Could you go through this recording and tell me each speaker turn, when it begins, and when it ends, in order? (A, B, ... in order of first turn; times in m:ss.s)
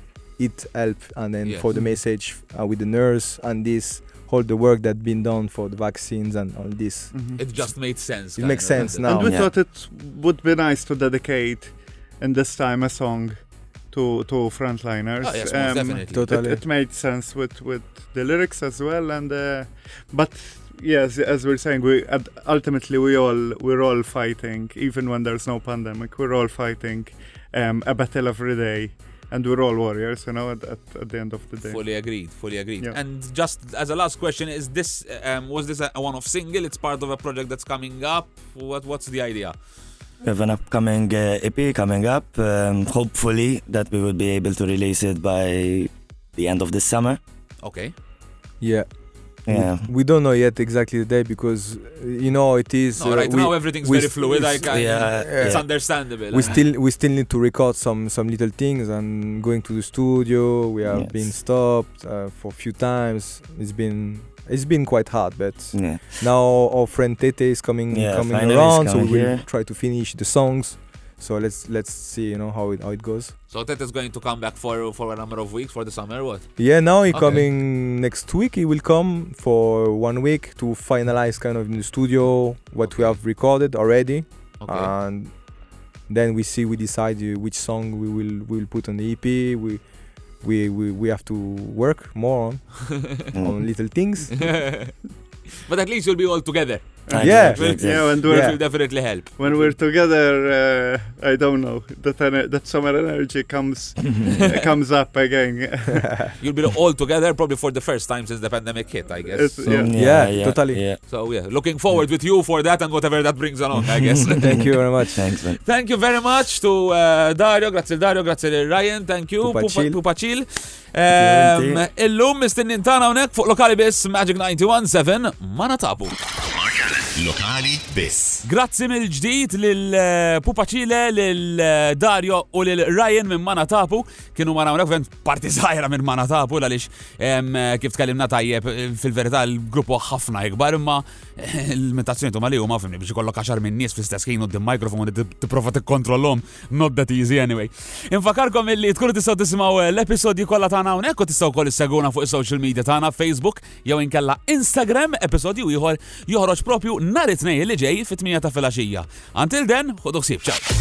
0:00.4-0:09.5 A
0:01.4-0:01.7 B
0:01.7-0:02.0 C
0:07.1-0:07.4 C
0:07.4-0:09.5 B
0:08.8-0:33.0 C
0:15.2-0:16.3 B
0:16.1-0:16.6 A
0:31.6-0:39.6 B
0:40.2-0:47.2 D
0:47.6-0:47.9 B
0:48.6-1:13.4 A
0:49.5-0:49.9 D
0:53.0-0:56.6 B
0:54.7-0:55.7 D
1:00.8-1:01.2 D
1:05.7-1:06.2 D
1:07.9-1:09.5 D
1:13.5-1:16.6 B
1:16.6-1:25.4 A
1:17.1-1:17.4 B
1:22.8-1:23.2 B
1:24.6-1:24.9 B
1:26.1-1:29.9 A
1:30.4-1:34.6 A
1:33.3-1:33.6 D
1:34.4-1:35.1 B
1:35.6-1:39.8 B
1:37.1-1:46.3 C
1:37.1-1:38.2 D
1:37.2-1:38.6 A
1:44.3-1:44.6 B
1:46.4-1:49.9 B
1:49.3-1:50.0 C
1:49.6-1:51.0 D
1:49.9-1:50.8 A
1:51.0-2:06.2 B
1:54.1-1:54.6 D
1:54.4-1:55.2 A
1:55.1-1:55.6 D
1:59.4-2:00.0 A
2:01.1-2:01.8 D
2:06.5-2:08.5 E
2:08.4-2:40.6 B